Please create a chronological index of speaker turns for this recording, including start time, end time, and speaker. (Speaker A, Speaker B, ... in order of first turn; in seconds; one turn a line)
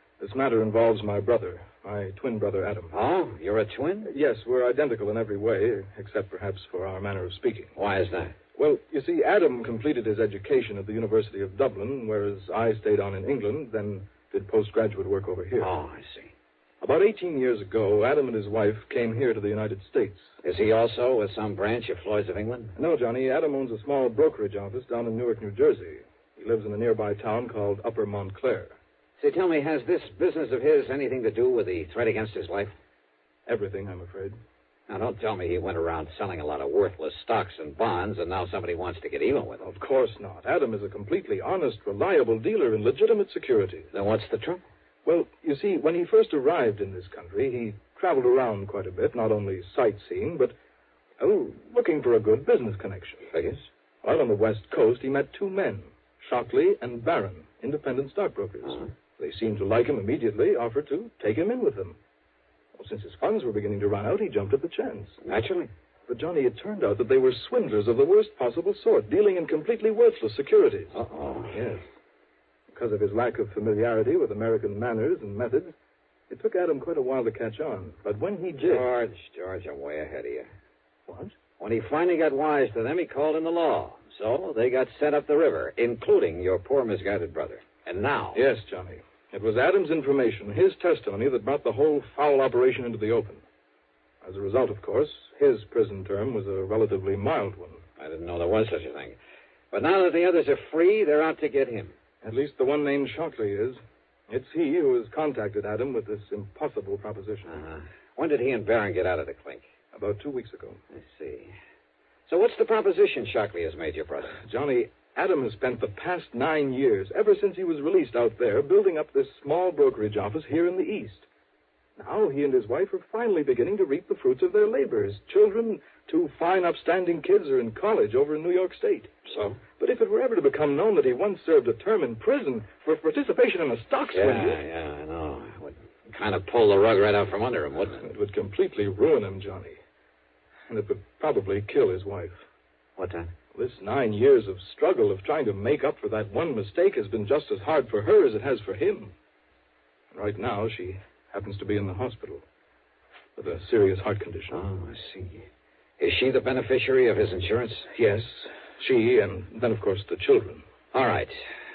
Speaker A: 0.2-3.0
Speaker B: 2.9-4.1
Speaker A: 4.0-7.7
Speaker B: 7.8-8.4
Speaker A: 8.6-15.7
Speaker B: 15.6-16.3
Speaker A: 16.8-20.3
Speaker B: 20.4-22.8
Speaker A: 22.8-28.8
Speaker B: 29.2-32.7
Speaker A: 33.5-34.4
Speaker B: 34.9-39.7
Speaker A: 39.6-43.9
Speaker B: 43.9-44.6
Speaker A: 45.0-50.5
Speaker A: 51.2-62.0
Speaker B: 53.3-53.6
Speaker B: 58.6-58.9
Speaker A: 62.8-65.2
Speaker B: 65.2-65.7
Speaker A: 66.1-71.0
Speaker B: 70.9-71.6
Speaker A: 71.5-71.9
Speaker A: 72.7-75.8
Speaker A: 76.3-78.9
Speaker B: 78.6-80.5
Speaker A: 81.1-81.3
Speaker B: 81.6-88.4
Speaker A: 88.3-93.5
Speaker A: 94.2-97.8
Speaker B: 98.0-99.2
Speaker B: 99.7-102.0
Speaker A: 102.2-107.6
Speaker B: 107.5-109.7
Speaker A: 109.9-110.8
Speaker B: 110.9-111.6
Speaker B: 112.3-114.4
Speaker A: 114.4-121.3
Speaker A: 122.0-129.1
Speaker B: 129.3-129.6
Speaker A: 129.8-134.6
Speaker B: 134.1-138.1
Speaker A: 138.0-139.8
Speaker A: 140.7-142.4
Speaker B: 143.0-143.3
Speaker A: 143.5-149.2
Speaker A: 150.1-152.4
Speaker A: 153.3-154.6
Speaker B: 154.5-155.5
Speaker B: 156.0-157.9
Speaker A: 157.9-160.6
Speaker B: 160.9-161.4